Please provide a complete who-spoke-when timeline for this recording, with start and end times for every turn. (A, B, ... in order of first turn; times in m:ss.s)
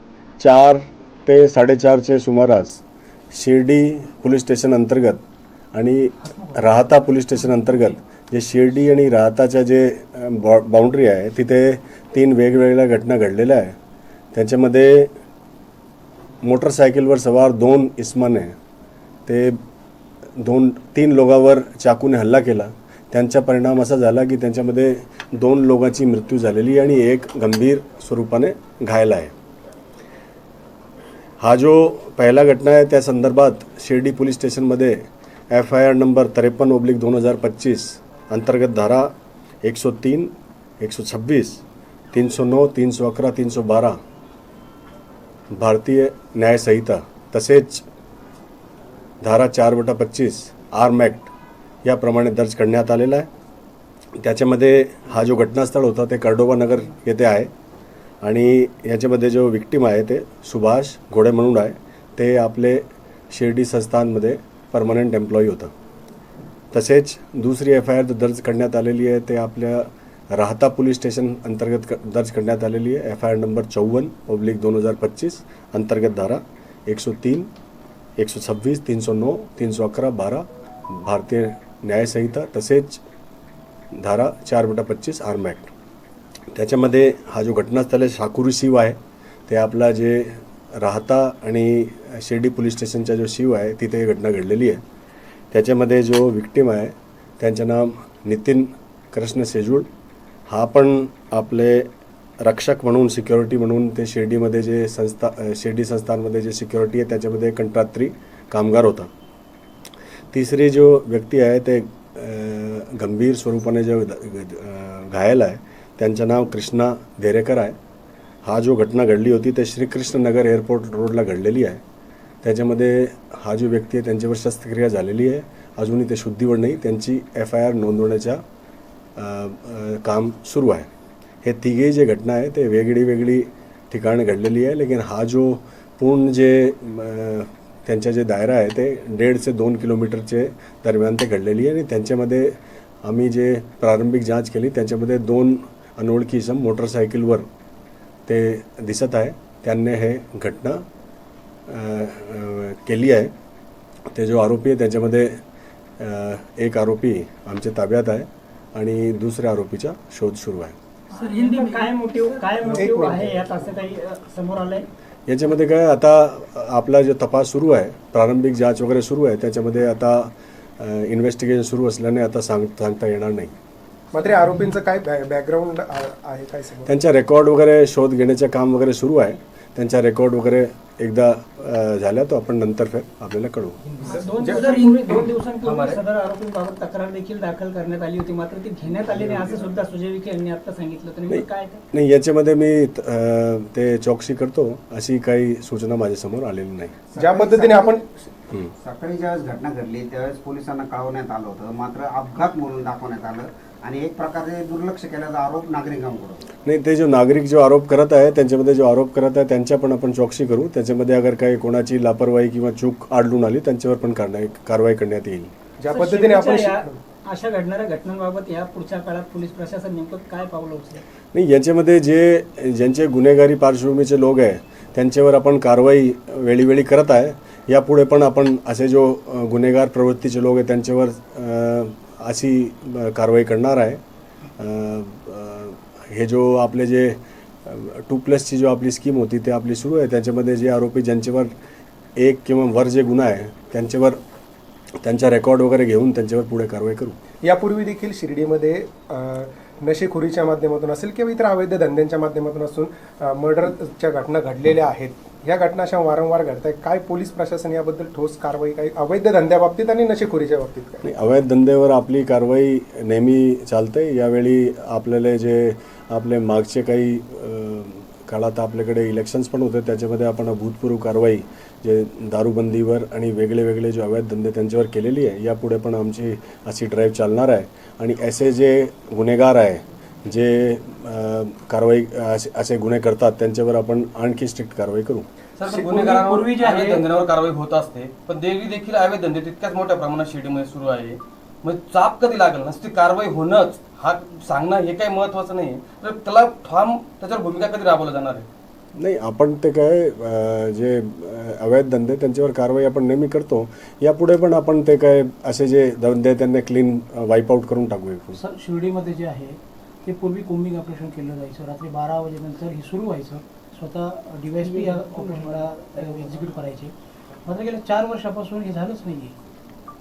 0:00.4-0:05.2 A
0:05.7-0:13.8 A
0:14.3-0:15.1 A
0:16.4-0:18.6 A
0:19.3-0:19.6 A
0:20.4-0:29.3 A
0:31.4-0:39.1 A
0:39.6-0:44.0 A
0:45.5-0:47.9 A
0:49.2-0:51.3 A
0:51.8-0:53.3 A
0:54.2-0:57.5 A
0:58.2-1:05.7 A
1:06.7-1:17.5 A
1:18.2-1:23.0 A
1:23.9-1:25.7 A
1:26.5-1:34.8 A
1:35.5-1:39.9 A
1:40.5-1:41.9 A
1:42.4-1:49.1 A
1:50.3-1:57.8 A
1:58.4-2:01.8 A
2:02.4-2:08.4 A
2:09.2-2:10.9 A
2:11.4-2:27.5 A
2:28.3-2:30.8 A
2:31.7-2:33.3 A
2:34.1-2:35.4 A
2:36.0-2:40.8 A
2:41.1-2:44.9 B
2:42.6-2:43.6 C
2:45.3-2:53.5 A
2:54.1-2:56.9 C
2:56.8-3:03.8 A
3:04.0-3:11.8 B
3:04.4-3:04.8 C
3:04.5-3:06.0 D
3:09.3-3:09.5 C
3:11.3-3:17.0 A
3:17.2-3:18.0 C
3:17.4-3:17.9 E
3:18.8-3:26.4 E
3:26.6-3:35.5 A
3:35.8-3:37.0 C
3:35.9-3:41.0 B
3:41.3-3:54.0 A
3:54.6-4:01.5 A
4:02.2-4:04.2 A
4:05.0-4:07.2 A
4:07.4-4:21.0 C
4:21.0-4:45.3 A
4:45.6-4:58.5 D
4:46.2-4:47.0 F
4:59.0-5:08.4 A
5:08.3-5:16.9 F
5:17.4-5:19.4 F